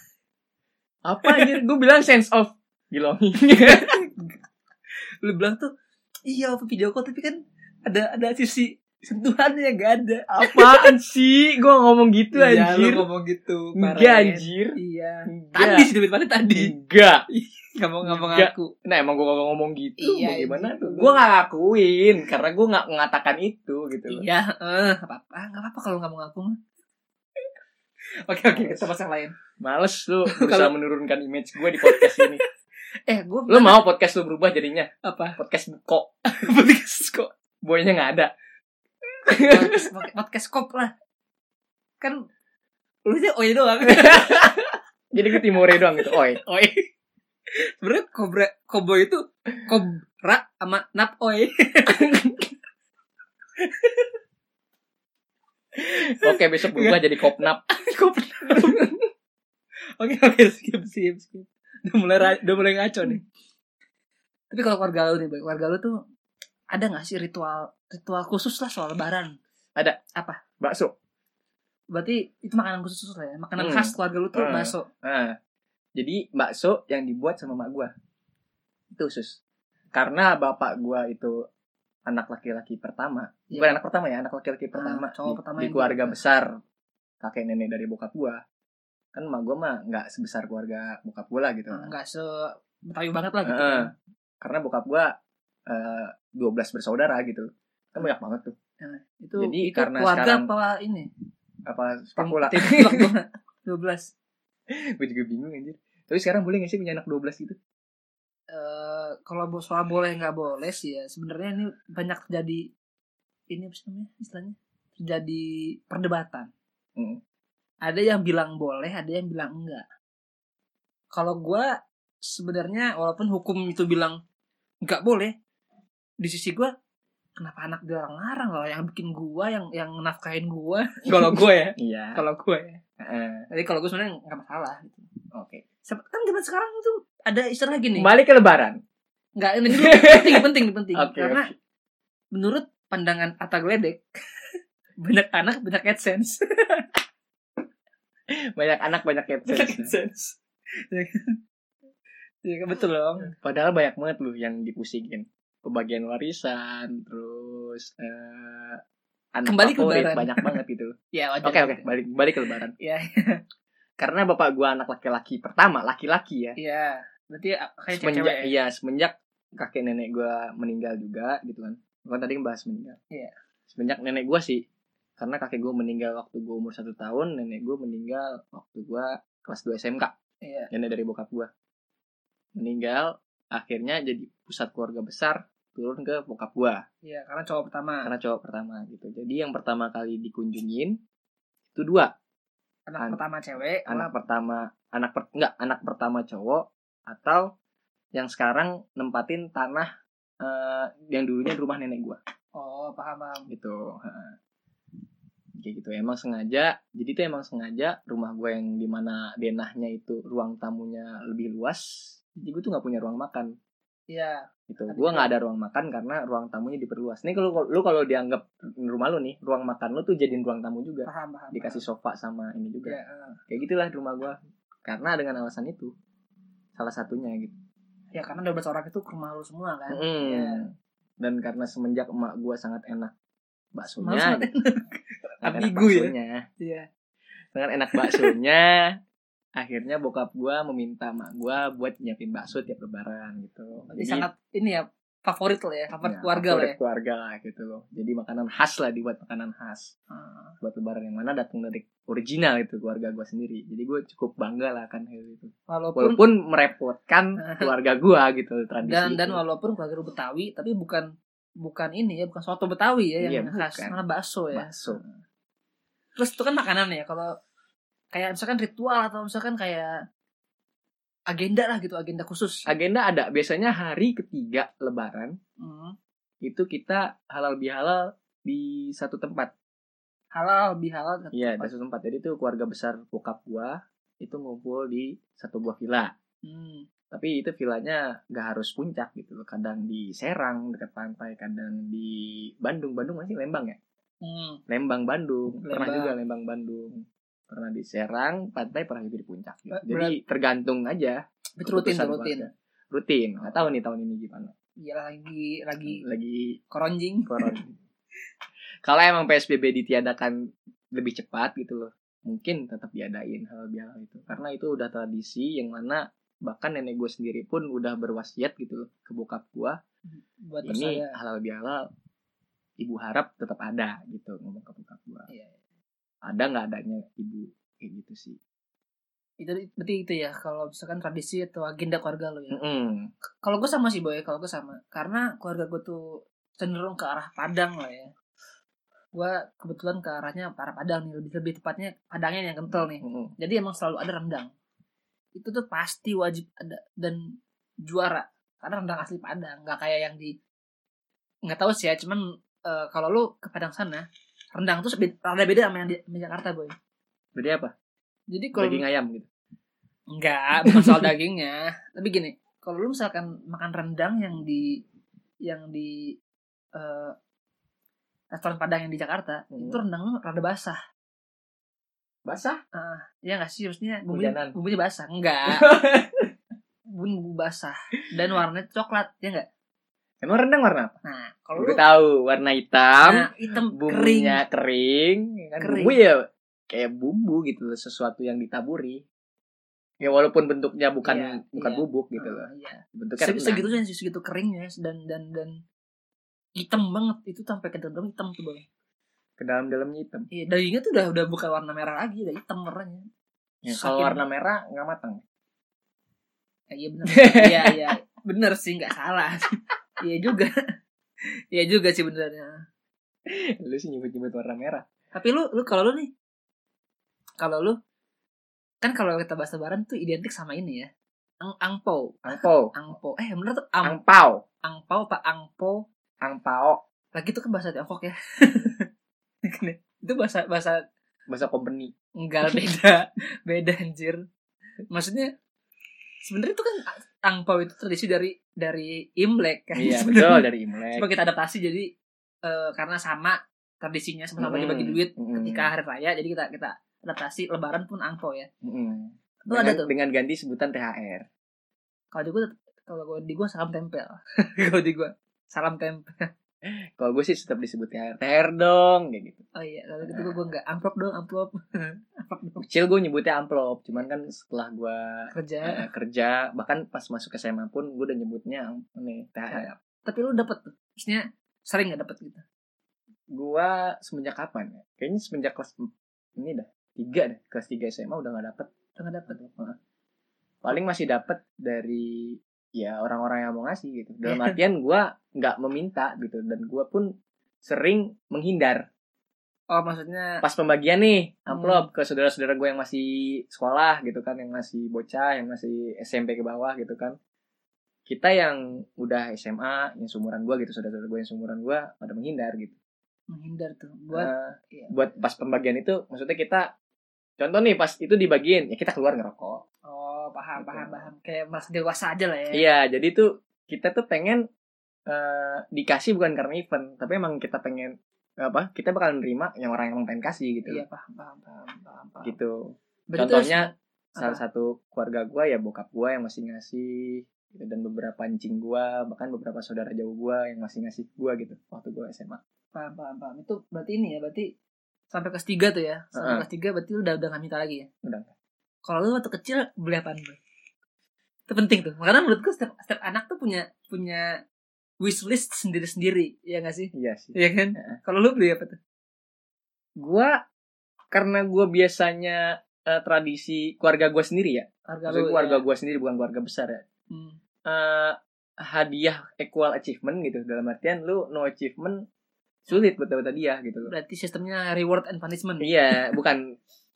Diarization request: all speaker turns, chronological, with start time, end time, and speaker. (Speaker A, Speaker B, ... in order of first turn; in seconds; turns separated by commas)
Speaker A: 1.0-4.0, Speaker B: 1.2-1.6, Speaker B: 3.7-4.3, Speaker B: 5.2-5.7, Speaker B: 6.3-10.9, Speaker A: 10.3-13.0, Speaker B: 12.3-16.7, Speaker A: 13.8-14.8, Speaker A: 15.3-15.9, Speaker A: 16.5-17.2, Speaker B: 17.3-18.7, Speaker A: 18.0-24.2, Speaker B: 20.0-21.2, Speaker B: 24.1-26.6, Speaker B: 28.2-29.4, Speaker A: 28.5-28.9, Speaker A: 29.6-32.4, Speaker B: 30.2-30.7, Speaker B: 31.8-32.4, Speaker B: 33.1-33.8, Speaker A: 33.5-36.1, Speaker B: 35.0-35.4, Speaker B: 36.3-37.3, Speaker A: 37.6-38.3, Speaker A: 39.2-39.9, Speaker B: 39.4-40.9, Speaker B: 42.0-42.2, Speaker B: 43.0-44.7, Speaker A: 43.9-46.4, Speaker B: 45.3-46.9, Speaker B: 47.5-52.4, Speaker B: 53.8-54.0, Speaker B: 55.9-59.0, Speaker A: 56.1-57.6, Speaker A: 58.5-58.8, Speaker B: 60.0-63.2, Speaker B: 64.5-66.0, Speaker B: 66.7-69.3, Speaker B: 70.1-70.4, Speaker A: 70.6-70.9, Speaker B: 71.9-74.9, Speaker A: 73.6-75.4, Speaker A: 76.0-77.9, Speaker A: 78.9-79.4, Speaker A: 79.9-81.4, Speaker A: 82.0-86.6, Speaker B: 83.5-83.8, Speaker B: 84.7-86.2, Speaker A: 87.2-88.4, Speaker A: 89.1-91.9, Speaker B: 91.7-93.9, Speaker A: 93.4-95.1, Speaker A: 95.7-98.5, Speaker B: 98.8-101.1, Speaker A: 99.4-100.5, Speaker A: 101.7-103.1, Speaker B: 102.2-104.1, Speaker A: 104.7-107.6, Speaker B: 108.5-112.7, Speaker B: 113.5-116.5, Speaker B: 117.8-119.8, Speaker B: 121.1-124.2, Speaker B: 124.8-125.3, Speaker B: 126.2-126.7, Speaker B: 127.4-132.8, Speaker A: 131.1-132.2, Speaker A: 133.0-133.4, Speaker B: 133.5-135.1, Speaker A: 135.3-135.6, Speaker B: 135.8-138.1, Speaker A: 137.9-138.8, Speaker B: 139.4-141.5, Speaker A: 139.7-141.5, Speaker B: 142.3-144.4, Speaker B: 145.0-146.9, Speaker A: 148.3-149.9, Speaker B: 149.4-151.4, Speaker B: 152.4-153.3, Speaker A: 153.3-158.8, Speaker A: 159.3-162.7, Speaker B: 159.4-160.6, Speaker B: 161.1-161.8, Speaker B: 162.8-163.4, Speaker A: 164.0-166.6, Speaker B: 166.6-168.5, Speaker A: 167.9-173.0, Speaker A: 173.7-174.6, Speaker A: 175.2-180.1, Speaker B: 180.4-180.7, Speaker A: 180.7-181.5, Speaker A: 182.6-186.8, Speaker B: 187.0-188.1, Speaker A: 188.0-191.0, Speaker A: 191.7-192.1, Speaker B: 192.9-194.1, Speaker A: 193.8-197.5, Speaker A: 198.1-199.9, Speaker A: 200.4-202.2, Speaker B: 202.6-203.5, Speaker A: 203.5-204.3, Speaker A: 205.6-213.5, Speaker B: 214.1-215.3, Speaker A: 214.7-223.0, Speaker B: 221.1-221.8, Speaker B: 222.8-223.4, Speaker A: 223.5-225.9, Speaker A: 226.8-227.5, Speaker B: 228.1-230.6, Speaker A: 229.9-233.1, Speaker A: 233.7-234.5, Speaker B: 234.0-236.9, Speaker A: 235.4-236.4, Speaker A: 237.5-238.9, Speaker B: 237.9-238.3, Speaker A: 239.6-244.3, Speaker B: 243.9-246.8, Speaker A: 246.0-249.9, Speaker B: 250.1-250.5, Speaker A: 250.6-259.4, Speaker B: 255.7-256.2, Speaker B: 257.4-257.7, Speaker B: 258.8-261.1, Speaker B: 261.6-265.1, Speaker A: 263.2-264.0, Speaker A: 264.5-265.0, Speaker B: 266.2-267.3, Speaker B: 268.1-269.9, Speaker B: 271.3-272.7, Speaker A: 272.6-275.4, Speaker B: 275.6-275.9, Speaker A: 276.4-279.5, Speaker B: 280.3-281.7, Speaker A: 281.3-286.1, Speaker B: 286.4-286.9, Speaker A: 287.1-293.8, Speaker B: 294.2-294.6, Speaker A: 294.7-304.5, Speaker B: 295.6-296.1, Speaker B: 299.7-300.2, Speaker B: 301.6-302.5, Speaker B: 304.8-306.0, Speaker A: 305.8-306.6, Speaker B: 306.7-307.6, Speaker A: 307.3-307.7, Speaker A: 308.8-310.4, Speaker A: 310.9-319.8, Speaker B: 320.1-321.1, Speaker A: 320.6-321.9, Speaker A: 322.8-325.3, Speaker B: 325.3-325.6, Speaker A: 326.2-328.4, Speaker B: 329.4-332.6, Speaker A: 332.5-333.1, Speaker B: 333.4-338.1, Speaker B: 339.1-344.5, Speaker A: 343.0-343.3, Speaker B: 345.4-350.4, Speaker B: 351.4-356.7, Speaker A: 357.3-357.7, Speaker B: 358.3-358.8, Speaker A: 358.5-359.3, Speaker B: 360.1-364.8, Speaker A: 360.6-361.1, Speaker B: 365.4-366.2, Speaker B: 366.7-367.1, Speaker B: 368.3-370.8, Speaker A: 369.5-369.8, Speaker A: 372.2-372.6, Speaker B: 372.7-375.7, Speaker A: 374.1-374.5, Speaker A: 375.5-376.3, Speaker B: 376.9-379.5, Speaker A: 380.2-380.9, Speaker B: 381.0-381.8, Speaker A: 381.6-389.0, Speaker B: 383.0-384.4, Speaker B: 385.6-386.0, Speaker A: 390.0-393.7, Speaker B: 391.0-395.6, Speaker B: 396.6-398.6, Speaker A: 399.4-400.3, Speaker B: 400.3-403.1, Speaker A: 403.6-405.2, Speaker B: 403.7-404.2, Speaker B: 406.7-410.5, Speaker A: 407.1-407.8, Speaker B: 411.5-412.6, Speaker A: 413.3-414.8, Speaker B: 415.1-416.1, Speaker B: 417.4-417.8, Speaker B: 418.8-420.9, Speaker B: 421.4-424.0, Speaker A: 422.2-422.7, Speaker A: 423.8-424.4, Speaker B: 424.6-425.8, Speaker A: 426.2-426.8, Speaker B: 427.1-428.9, Speaker B: 429.4-430.8, Speaker A: 431.3-431.9, Speaker B: 432.2-434.2, Speaker B: 434.9-435.3, Speaker B: 436.2-441.9, Speaker A: 439.8-441.1, Speaker B: 442.4-448.5, Speaker A: 444.4-445.7, Speaker A: 448.6-451.3, Speaker B: 449.5-449.9, Speaker B: 452.1-456.3, Speaker A: 456.6-459.4, Speaker B: 459.5-462.6, Speaker A: 460.0-460.4, Speaker A: 462.6-469.7, Speaker B: 465.3-465.8, Speaker B: 469.5-472.4, Speaker A: 473.3-478.7, Speaker B: 478.9-479.4, Speaker A: 479.3-479.8, Speaker A: 480.6-487.1, Speaker B: 484.3-484.6, Speaker A: 487.6-488.9, Speaker B: 489.7-490.4, Speaker A: 490.4-497.2, Speaker B: 491.5-491.9, Speaker A: 498.1-502.8, Speaker B: 503.3-505.1, Speaker A: 504.1-506.7, Speaker A: 507.4-509.6, Speaker B: 509.9-512.6, Speaker A: 510.6-511.1, Speaker A: 512.5-514.4, Speaker A: 515.1-520.8, Speaker B: 520.6-522.4, Speaker A: 522.2-532.4, Speaker B: 523.1-524.4, Speaker B: 532.7-534.5, Speaker B: 535.1-537.9, Speaker A: 536.1-536.4, Speaker A: 538.0-538.3, Speaker B: 538.8-540.4, Speaker B: 541.5-544.4, Speaker B: 545.0-548.8, Speaker A: 546.9-548.0, Speaker A: 550.0-550.4, Speaker A: 551.1-556.8, Speaker B: 554.9-555.6, Speaker B: 557.1-557.4, Speaker A: 557.6-562.0, Speaker A: 562.6-563.9, Speaker B: 563.9-566.0, Speaker A: 565.6-566.5